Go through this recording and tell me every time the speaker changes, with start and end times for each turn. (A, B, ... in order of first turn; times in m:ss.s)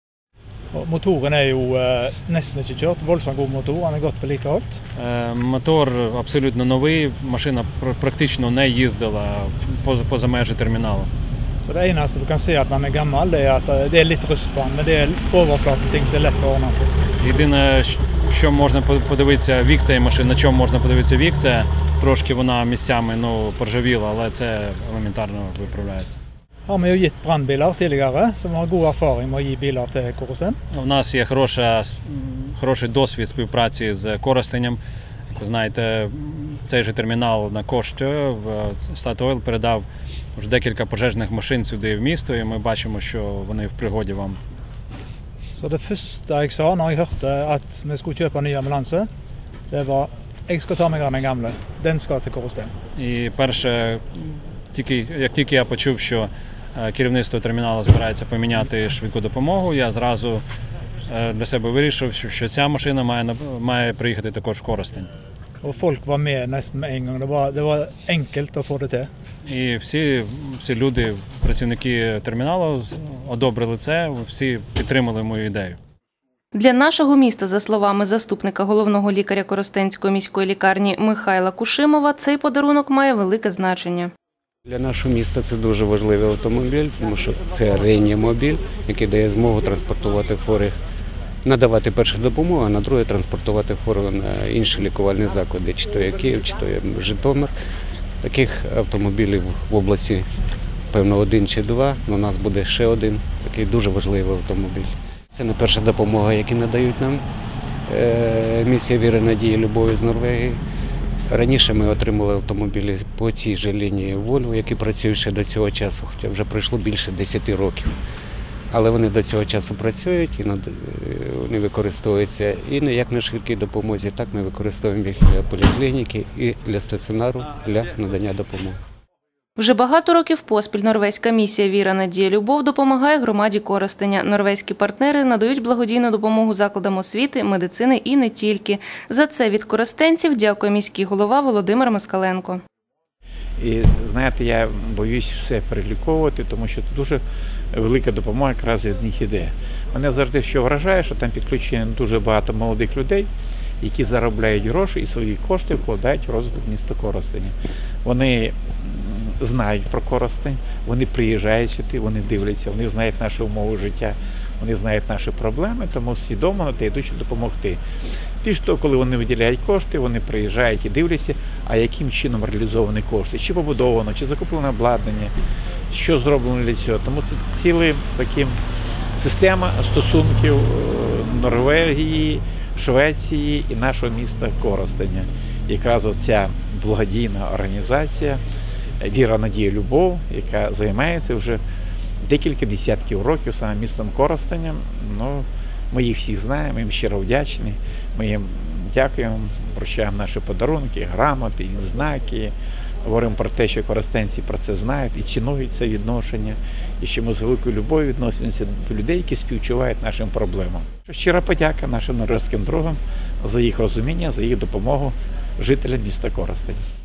0:00.7-0:04.8 A
0:05.0-0:11.1 B
0:11.6-0:16.9 A
0:17.2-0:26.2 B
0:26.7-0:30.6 A
0:30.7-0:34.8 B
0:35.3-0:44.4 B
0:45.5-0:49.1 A
0:49.7-0:52.7 A
0:53.0-1:00.4 B
1:01.1-1:05.1 B
1:05.6-1:09.1 A
1:09.4-1:15.8 B
1:16.5-1:24.1 C
1:24.7-1:30.8 D
1:31.4-1:37.5 D
1:38.2-1:40.3 D
1:40.9-1:47.2 D
1:47.9-1:50.6 D
1:51.3-1:58.0 D
1:58.7-2:08.8 D
2:09.6-2:22.6 C
2:23.6-2:27.2 E
2:27.7-2:33.3 E
2:33.8-2:37.5 E
2:38.0-2:47.8 E
2:48.4-2:55.3 E
2:55.9-2:58.6 E
2:59.2-3:08.4 E
3:09.0-3:11.6 E
3:12.2-3:22.5 E
3:23.0-3:36.8 E